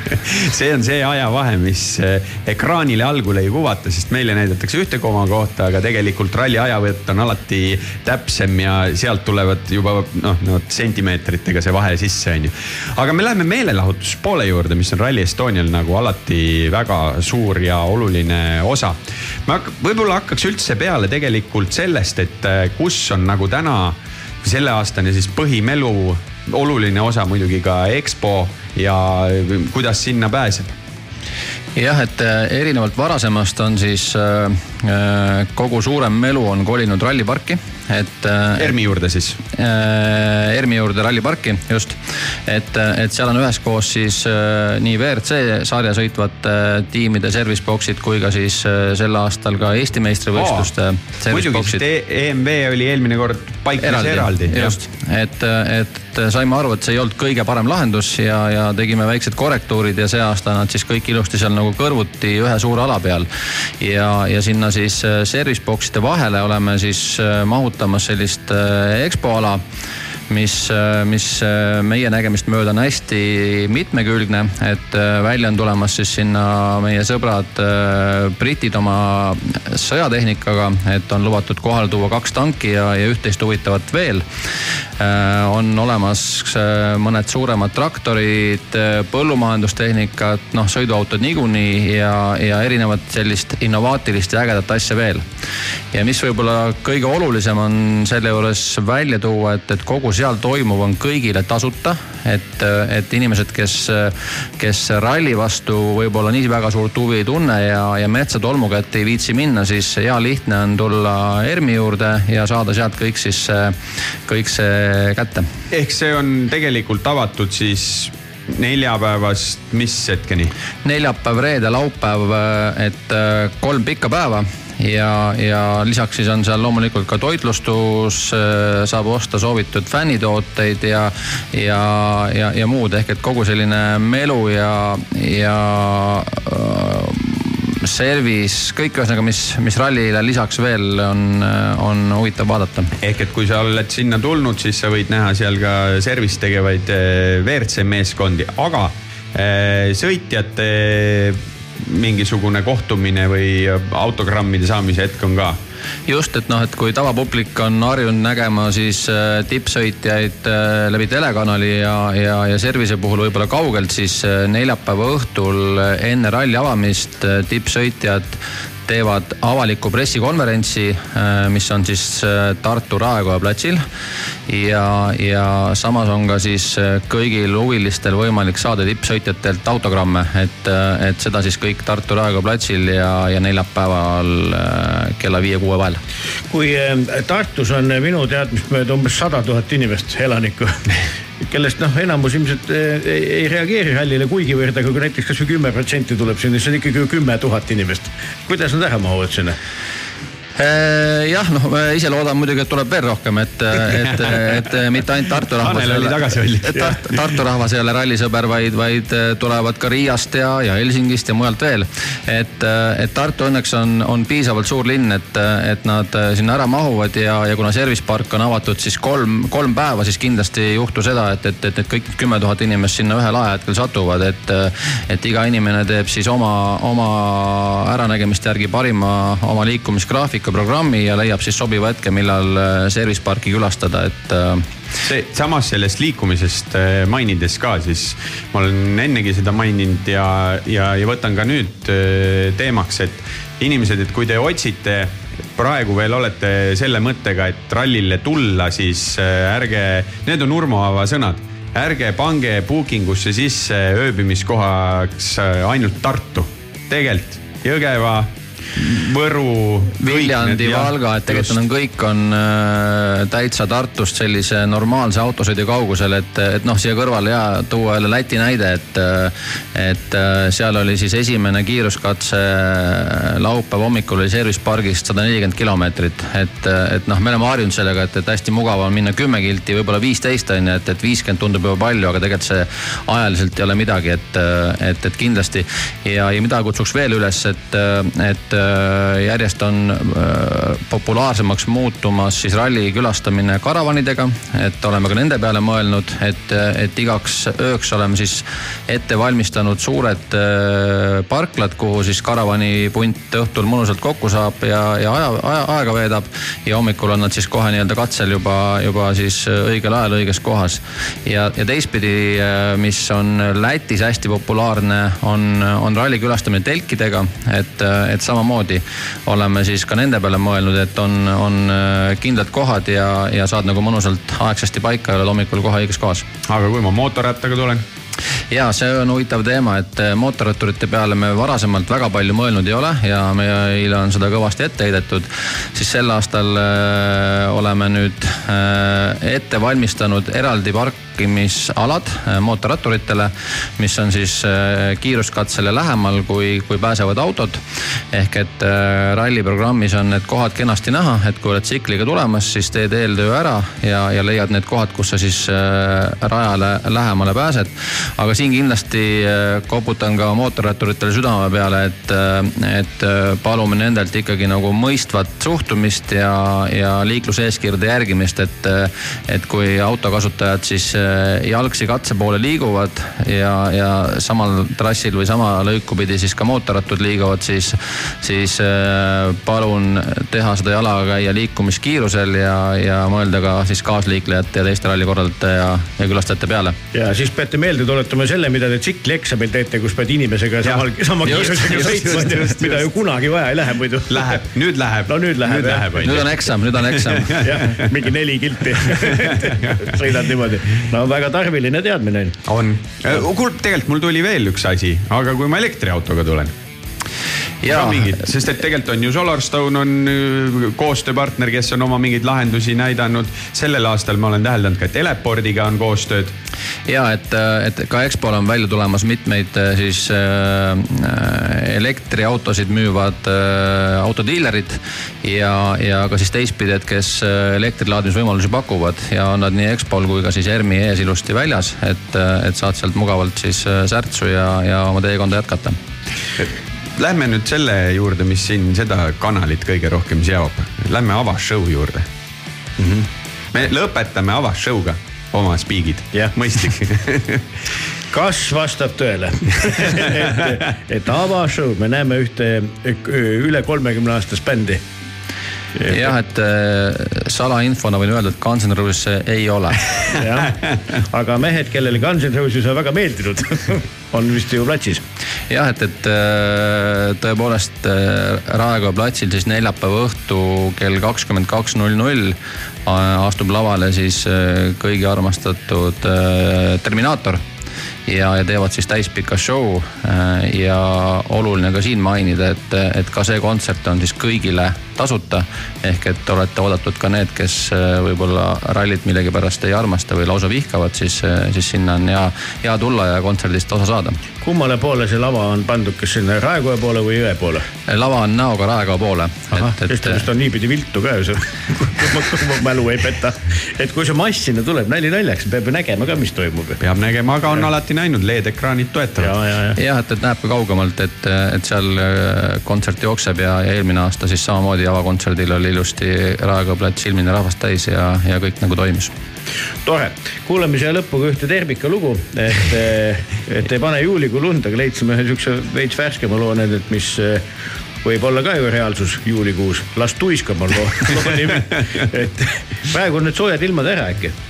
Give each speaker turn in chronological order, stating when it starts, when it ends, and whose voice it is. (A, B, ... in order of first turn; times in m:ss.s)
0:00.1-0:30.7 A
0:31.8-0:38.7 B
0:38.6-0:39.4 A
0:39.5-0:42.0 B
0:42.5-0:51.8 B
0:50.4-0:50.7 A
0:51.3-0:54.8 A
0:53.8-1:03.3 B
1:03.8-1:09.6 B
1:10.3-1:24.2 B
1:25.0-1:35.3 B
1:35.9-1:55.5 B
1:55.7-2:00.5 A
2:00.8-2:22.9 B
2:23.0-2:35.6 A
2:36.1-2:53.8 B
2:54.5-3:06.0 B
3:06.5-3:10.8 C
3:11.4-3:19.6 C
3:20.6-3:54.7 B
3:25.6-3:27.2 A
3:55.0-4:21.6 A
4:20.0-5:26.3 B
5:26.5-5:27.8 A
5:28.5-5:47.6 B
5:48.1-6:26.8 B
6:26.9-6:34.4 C
6:30.6-6:32.9 A
6:34.1-6:37.7 A
6:35.1-6:36.0 C
6:36.0-6:37.4 B
6:37.4-6:42.4 C
6:39.2-6:39.5 A
6:42.4-6:46.5 A
6:47.6-6:48.2 B
6:47.6-6:56.4 A
6:56.9-7:15.8 B
7:16.4-7:22.1 A
7:22.8-7:23.1 C
7:23.5-7:27.4 A
7:28.1-7:34.8 C
7:35.8-7:36.1 C
7:35.9-7:39.9 B
7:40.2-7:45.0 C
7:45.5-7:57.4 B
7:58.1-8:14.2 B
8:14.4-8:17.6 C
8:17.9-8:20.2 B
8:19.5-8:26.8 C
8:26.8-8:29.3 A
8:29.2-8:29.8 C
8:29.8-8:39.1 B
8:39.8-8:47.4 C
8:48.0-8:54.3 C